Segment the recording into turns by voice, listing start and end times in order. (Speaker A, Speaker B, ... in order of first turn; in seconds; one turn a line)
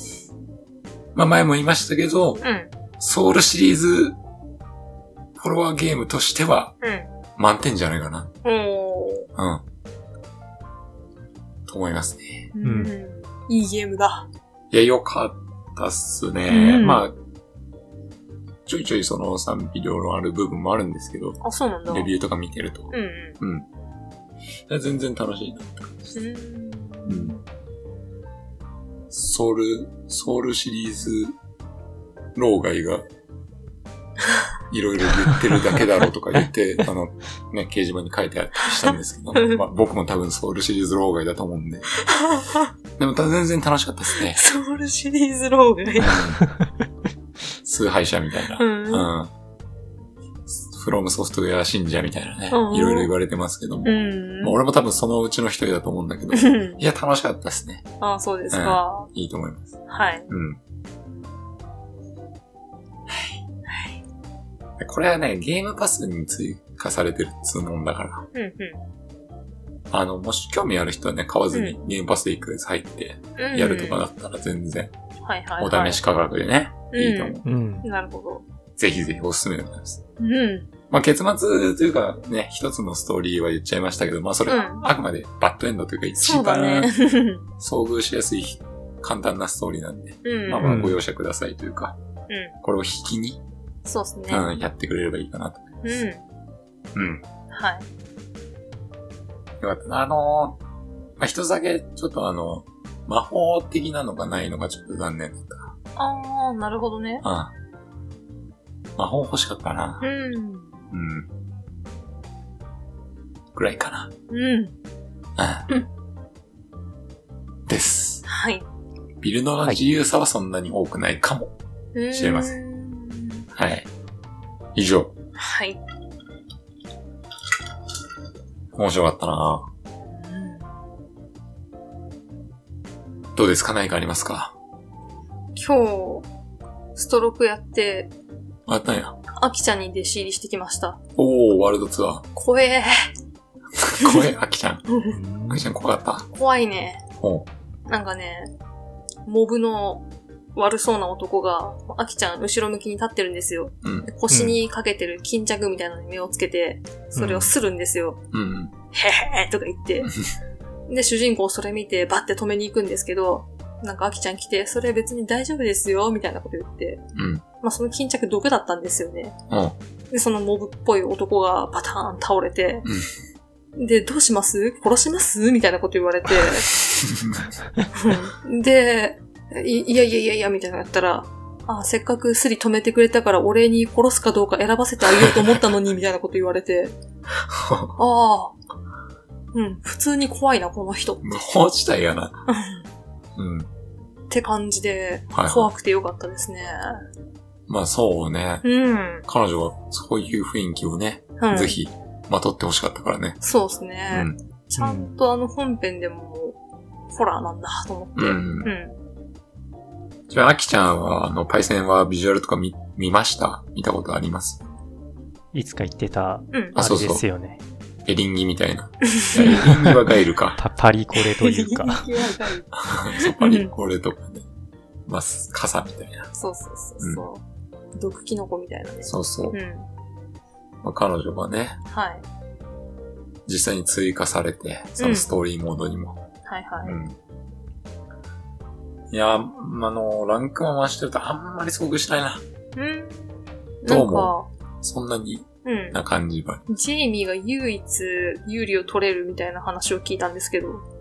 Speaker A: 1.1-2.4
Speaker B: 2.4-2.7
Speaker A: 3.0-4.2
Speaker A: 5.4-6.8
Speaker B: 6.8-7.1
Speaker A: 7.3-8.3
Speaker B: 8.4-9.3
Speaker A: 9.3-9.6
Speaker A: 11.7-12.5
Speaker B: 12.5-14.3
Speaker C: 12.6-12.9
Speaker A: 14.7-17.1
Speaker B: 16.5-17.0
Speaker A: 18.6-23.7
Speaker B: 21.4-22.1
Speaker B: 22.9-23.4
Speaker A: 24.7-26.1
Speaker B: 26.1-27.4
Speaker A: 27.1-27.4
Speaker A: 29.1-31.3
Speaker A: 32.3-33.0
Speaker A: 34.7-41.9
Speaker B: 39.3-39.6
Speaker B: 42.0-42.7
Speaker A: 43.0-44.4
Speaker B: 44.2-46.2
Speaker A: 46.0-46.4
Speaker A: 47.6-49.3
Speaker B: 48.6-49.0
Speaker A: 50.5-57.8
Speaker B: 52.5-53.1
Speaker B: 53.8-54.6
Speaker B: 56.3-56.8
Speaker B: 58.0-59.1
Speaker A: 58.5-59.8
Speaker B: 59.9-60.3
Speaker A: 60.3-60.6
Speaker A: 63.1-63.4
Speaker B: 63.7-64.0
Speaker A: 64.8-68.3
Speaker B: 68.3-68.8
Speaker A: 69.9-74.9
Speaker B: 73.4-74.0
Speaker B: 75.2-76.0
Speaker A: 75.6-77.4
Speaker B: 76.9-78.4
Speaker C: 77.4-77.8
Speaker A: 78.8-80.0
Speaker B: 80.2-80.7
Speaker A: 80.9-86.9
Speaker B: 84.5-84.9
Speaker B: 86.2-87.4
Speaker A: 87.6-92.0
Speaker B: 90.2-90.7
Speaker C: 90.6-91.0
Speaker B: 92.3-92.5
Speaker A: 92.6-93.4
Speaker B: 93.8-94.5
Speaker A: 94.3-95.9
Speaker B: 95.8-96.2
Speaker A: 96.9-97.2
Speaker B: 97.5-97.8
Speaker A: 99.6-100.6
Speaker A: 101.2-105.7
Speaker B: 106.0-107.2
Speaker A: 107.2-107.5
Speaker A: 109.0-110.0
Speaker B: 110.0-110.8
Speaker A: 110.9-111.3
Speaker A: 113.5-114.1
Speaker B: 114.3-114.7
Speaker A: 115.4-115.7
Speaker A: 117.7-118.2
Speaker B: 118.2-118.6
Speaker A: 119.2-121.5
Speaker B: 121.9-123.4
Speaker A: 122.1-122.6
Speaker A: 123.5-123.9
Speaker A: 124.7-125.1
Speaker B: 125.4-125.8
Speaker A: 128.7-129.7
Speaker B: 130.1-130.7
Speaker A: 133.3-134.5
Speaker B: 135.5-136.3
Speaker B: 136.9-138.1
Speaker A: 138.7-139.2
Speaker B: 139.3-141.0
Speaker A: 141.2-142.3
Speaker B: 142.3-142.9
Speaker A: 143.8-144.8
Speaker B: 144.0-144.2
Speaker B: 144.9-145.2
Speaker C: 145.1-145.6
Speaker A: 145.5-146.3
Speaker B: 146.3-147.0
Speaker A: 147.2-147.5
Speaker B: 147.9-148.5
Speaker B: 149.2-158.2
Speaker A: 153.8-154.1
Speaker C: 154.3-154.6
Speaker C: 157.2-157.5
Speaker A: 158.3-158.7
Speaker B: 158.9-160.1
Speaker B: 160.9-167.0
Speaker A: 167.1-167.4
Speaker B: 167.6-169.3
Speaker A: 169.5-169.8
Speaker B: 170.1-172.9
Speaker A: 172.8-173.1
Speaker B: 173.8-176.7
Speaker A: 176.4-177.5
Speaker B: 177.9-186.9
Speaker A: 185.2-185.5
Speaker A: 187.5-187.9
Speaker B: 187.9-188.6
Speaker B: 189.5-191.5
Speaker A: 191.2-192.4
Speaker B: 192.5-192.8
Speaker A: 193.3-193.7
Speaker B: 194.3-197.0
Speaker A: 195.3-195.7
Speaker A: 197.7-198.6
Speaker B: 198.6-199.2
Speaker A: 199.2-203.4
Speaker B: 201.4-201.8
Speaker B: 203.4-206.6
Speaker A: 204.1-204.4
Speaker C: 204.8-205.1
Speaker B: 207.1-209.0
Speaker A: 208.2-208.7
Speaker A: 210.3-214.6
Speaker C: 215.5-217.6
Speaker A: 216.8-217.2
Speaker A: 218.1-220.6
Speaker B: 219.0-219.9
Speaker C: 219.6-220.0
Speaker C: 220.6-222.1
Speaker B: 221.1-223.7
Speaker A: 222.8-224.4
Speaker A: 225.1-226.2
Speaker B: 226.3-227.4
Speaker B: 227.9-229.9
Speaker A: 229.0-229.6
Speaker A: 230.8-231.8
Speaker B: 231.9-232.2
Speaker A: 233.4-236.2
Speaker B: 235.0-235.3
Speaker B: 236.5-237.0
Speaker A: 236.8-237.2
Speaker A: 239.1-242.4
Speaker B: 242.8-244.5
Speaker A: 243.8-246.6
Speaker B: 245.6-246.0
Speaker B: 246.7-250.8